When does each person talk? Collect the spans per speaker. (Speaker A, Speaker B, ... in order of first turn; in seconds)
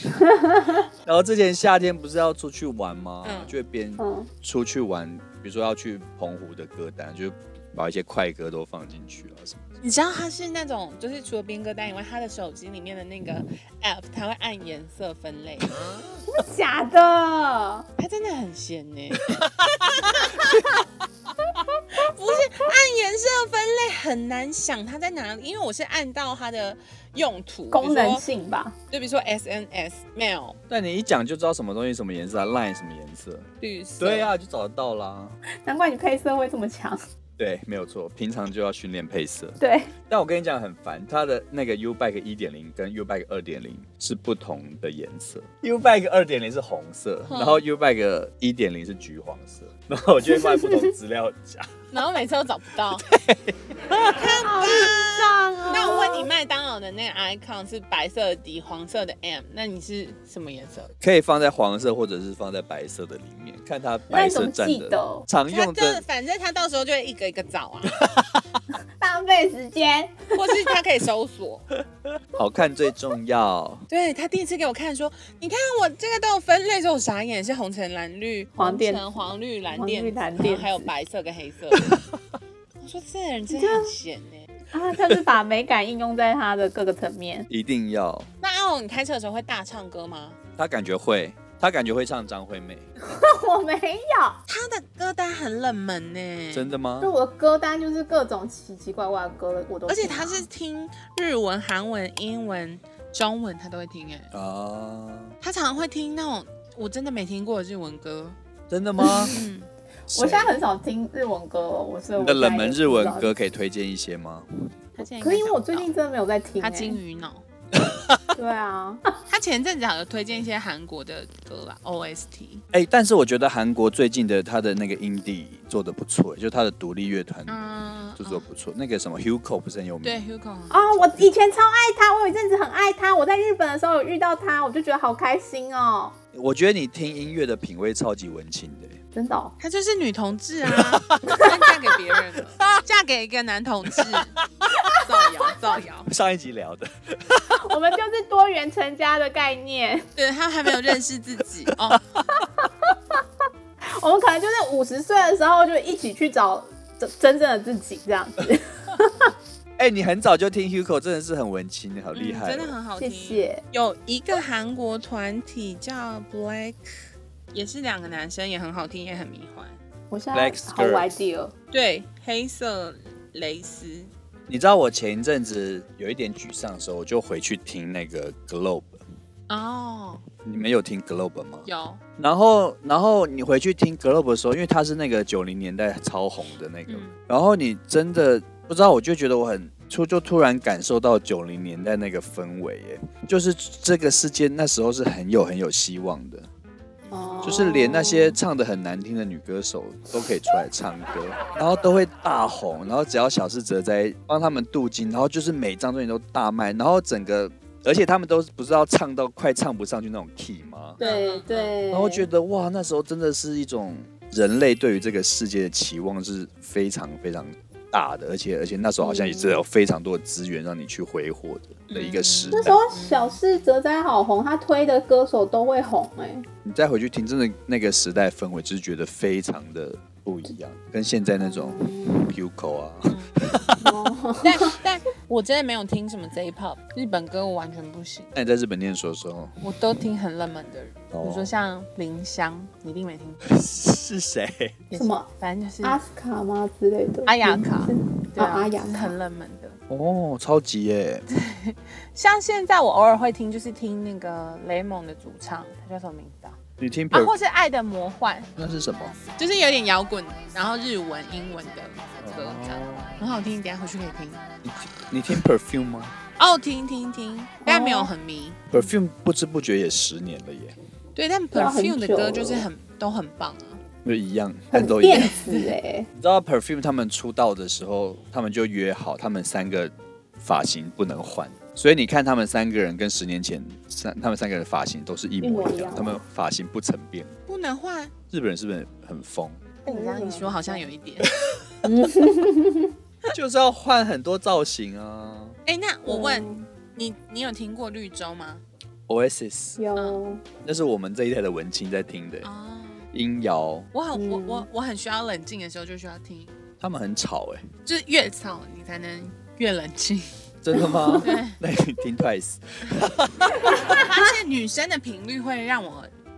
Speaker A: 0.2-0.8, 4.0-4.3, 16.3-17.9, 27.7-28.8, 35.6-37.0, 39.6-39.9, 54.3-56.3, 64.1-65.3, 69.0-70.4, 78.6-79.1, 79.7-80.9, 83.5-83.9, 84.7-87.5, 93.0-94.4, 97.0-100.5, 109.0-109.3, 110.1-113.3, 115.2-117.0, 118.3-119.1, 130.7-136.2, 139.2-139.6, 147.5-150.1, 152.6-152.9, 153.9-159.3, 163.0-163.6, 170.1-171.5, 197.1-198.4, 211.0-212.3, 219.0-219.6, 222.5-226.5, 231.4-232.3, 233.8-234.8, 244.9-245.3, 245.8-249.1, 267.7-268.1, 271.5-272.7, 274.7-276.1, 285.4-286.2, 289.9-290.9, 291.8-292.9, 296.1-296.6, 299.8-300.4, 304.1-304.7, 310.8-311.2, 313.7-314.1
Speaker B: 1.0-9.6, 19.4-20.9, 30.7-33.5, 34.0-35.4, 37.4-39.6, 40.1-51.7, 53.1-54.3, 61.0-66.0, 68.0-68.4, 72.3-73.8, 87.5-88.3, 90.6-92.8, 96.5-97.1, 104.3-105.4, 108.7-109.3, 110.1-110.5, 112.2-114.5, 117.7-118.2, 122.7-127.6, 128.2-130.2, 136.3-139.0, 140.7-141.6, 144.0-144.9, 146.1-147.6, 159.8-162.8, 170.3-171.1, 174.5-179.0, 180.4-181.7, 182.2-196.5, 197.4-211.0, 211.9-222.8, 226.6-233.9, 238.3-239.6, 241.1-241.5, 243.5-244.8, 249.9-251.2, 256.8-257.3, 258.6-259.2, 262.2-263.2, 264.6-266.1, 268.7-270.8, 274.1-275.4, 276.1-287.4, 288.3-289.7, 291.2-291.6, 293.3-295.6, 299.1-299.8, 300.6-302.5, 303.1-303.9, 306.8-307.7, 310.6-313.9
Speaker C: 3.2-3.5, 9.8-15.8, 18.0-20.6, 21.9-28.2, 28.9-30.6, 33.6-34.3, 47.3-47.6, 51.9-53.1, 54.0-60.9, 65.5-68.1, 70.3-71.6, 73.9-82.0, 82.8-84.5, 88.4-90.4, 94.5-96.7, 99.9-104.3, 105.4-108.4, 109.1-109.7, 115.0-115.9, 116.6-117.4, 119.3-122.6, 127.5-128.5, 130.0-131.1, 139.6-146.1, 150.2-152.0, 162.1-167.0, 167.5-169.7, 171.7-174.1, 179.5-180.2, 181.7-182.0, 186.9-187.2, 197.1-197.4, 211.0-211.7, 221.9-223.4, 233.1-233.5, 234.4-238.3, 239.6-243.5, 244.9-246.0, 247.2-249.8, 251.3-256.6, 257.1-258.5, 259.4-264.4, 266.4-268.7, 271.1-273.8, 275.1-275.8, 287.5-288.1, 289.9-291.3, 295.7-298.6, 302.4-303.1, 303.9-306.5, 307.9-310.3, 311.2-311.6, 313.6-316.1